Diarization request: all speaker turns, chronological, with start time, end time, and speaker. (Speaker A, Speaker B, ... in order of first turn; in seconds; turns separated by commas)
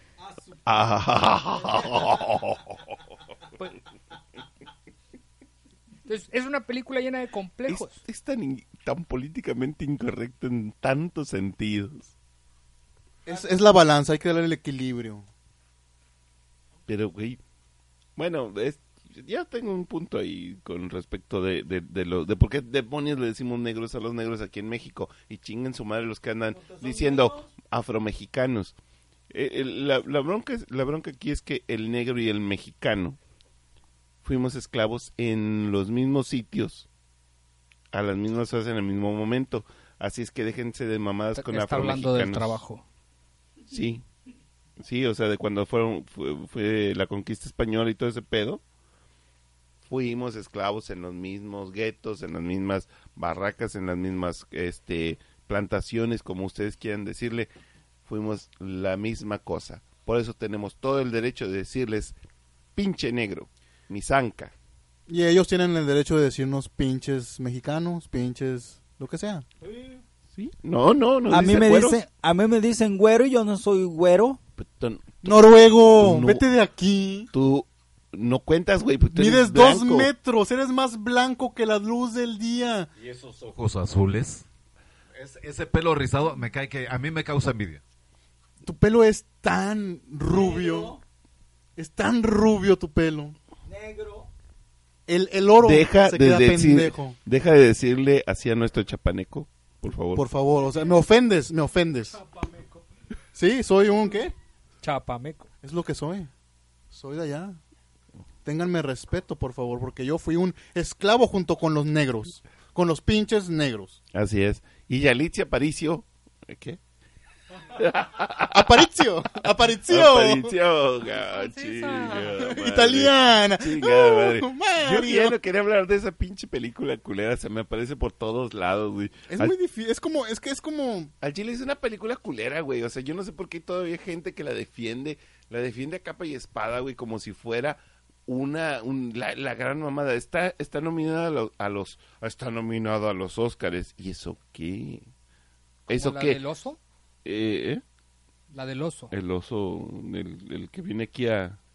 Speaker A: 0.2-0.6, Speaker B: 0.7-2.8, Speaker A: 1.7-2.4, Speaker C: 6.0-8.0, Speaker B: 7.7-12.1, Speaker D: 13.2-15.2, Speaker B: 16.9-17.4, Speaker B: 18.1-28.7, Speaker A: 26.7-27.4, Speaker B: 29.3-33.2, Speaker B: 34.2-36.9, Speaker B: 37.9-42.6, Speaker C: 41.4-42.8, Speaker B: 43.7-44.0, Speaker B: 44.8-48.6, Speaker B: 49.9-57.5, Speaker B: 58.0-62.1, Speaker B: 62.8-64.5, Speaker D: 65.1-69.5, Speaker A: 69.7-70.0, Speaker B: 70.3-72.0, Speaker A: 71.3-74.4, Speaker B: 74.6-76.4, Speaker D: 75.2-77.3, Speaker B: 77.3-80.1, Speaker D: 79.1-82.9, Speaker E: 83.0-84.5, Speaker E: 85.1-87.8, Speaker D: 88.6-91.0, Speaker A: 90.2-91.0, Speaker D: 91.8-93.3, Speaker A: 93.7-94.3, Speaker D: 95.1-97.2, Speaker B: 95.6-100.2, Speaker D: 100.2-102.2, Speaker C: 102.1-102.8, Speaker D: 103.3-104.3, Speaker C: 104.8-105.5, Speaker D: 105.6-106.3, Speaker D: 106.9-107.6, Speaker D: 108.4-114.0, Speaker B: 114.1-116.8, Speaker B: 117.7-118.9, Speaker D: 118.5-120.5, Speaker B: 119.9-129.5, Speaker C: 121.2-122.3, Speaker D: 122.4-125.4, Speaker D: 129.3-131.1, Speaker B: 131.2-145.0, Speaker C: 145.9-146.8, Speaker B: 145.9-146.4, Speaker B: 147.2-147.8, Speaker C: 148.5-149.1, Speaker B: 149.1-151.6